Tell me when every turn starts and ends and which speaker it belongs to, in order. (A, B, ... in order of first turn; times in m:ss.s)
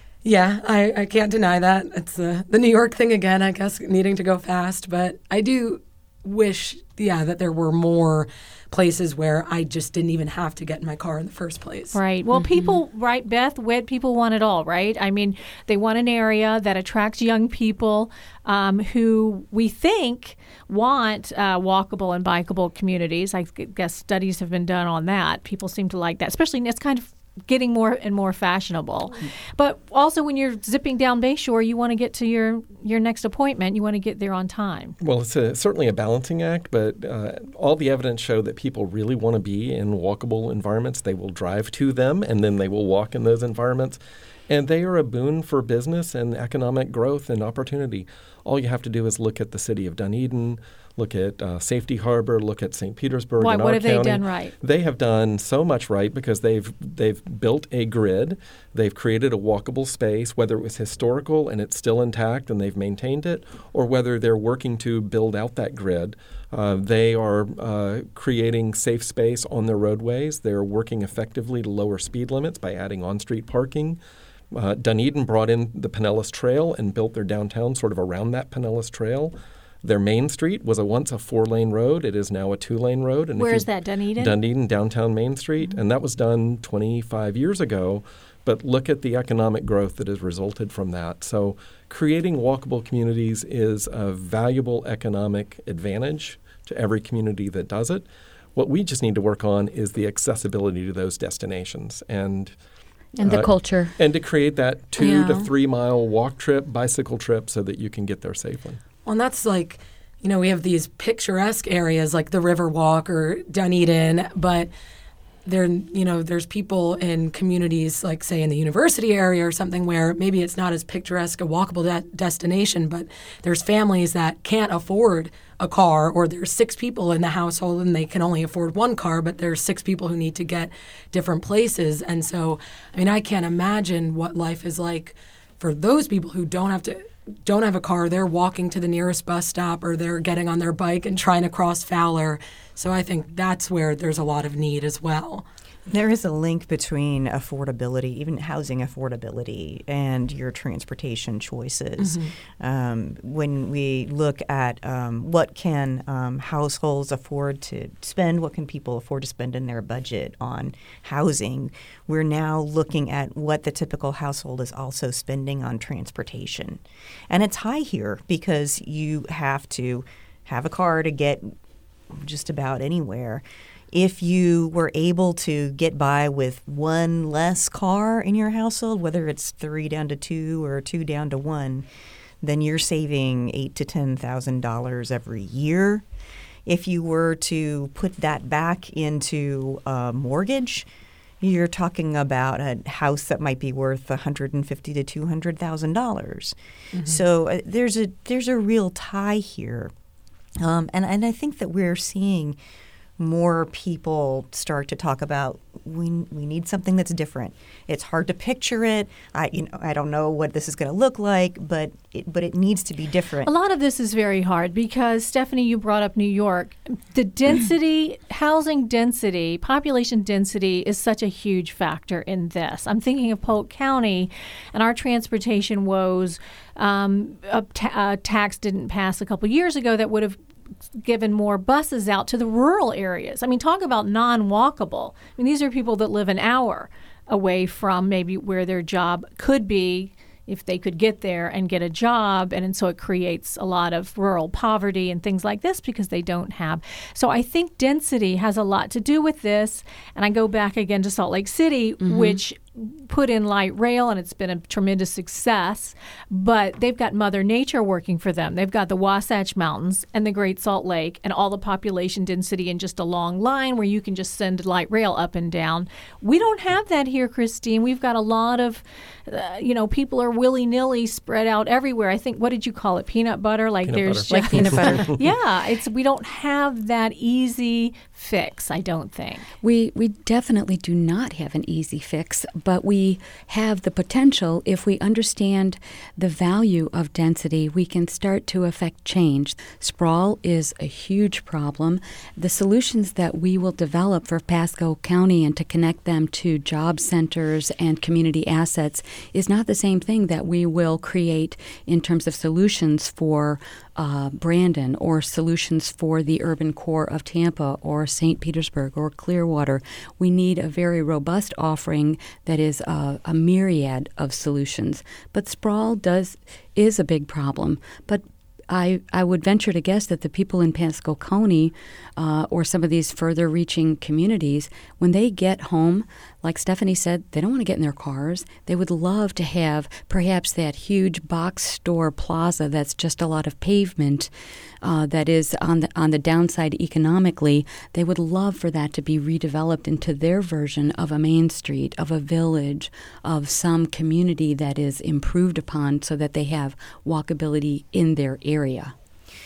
0:00.2-0:12.7 A
0:11.9-0:34.9 B
0:35.0-1:14.0 C
0:53.4-0:54.5 B
1:14.5-1:42.6 C
1:23.4-1:24.4 B
1:43.1-1:43.9 D
1:43.2-1:48.8 C
1:49.0-1:54.7 A
1:55.5-2:25.5 A
2:25.9-2:51.5 E
2:32.0-2:32.3 A
2:52.1-3:01.9 E
3:02.4-3:06.0 E
3:06.6-3:10.9 E
3:11.4-3:16.5 E
3:16.9-3:17.2 A
3:17.0-3:19.9 E
3:20.6-3:22.6 E
3:23.2-3:33.5 E
3:33.4-3:50.4 B
3:51.0-4:39.5 B
4:12.0-4:12.4 D
4:33.9-4:35.2 C
4:34.3-4:35.1 D
4:39.6-5:34.3 D
5:34.8-5:48.9 D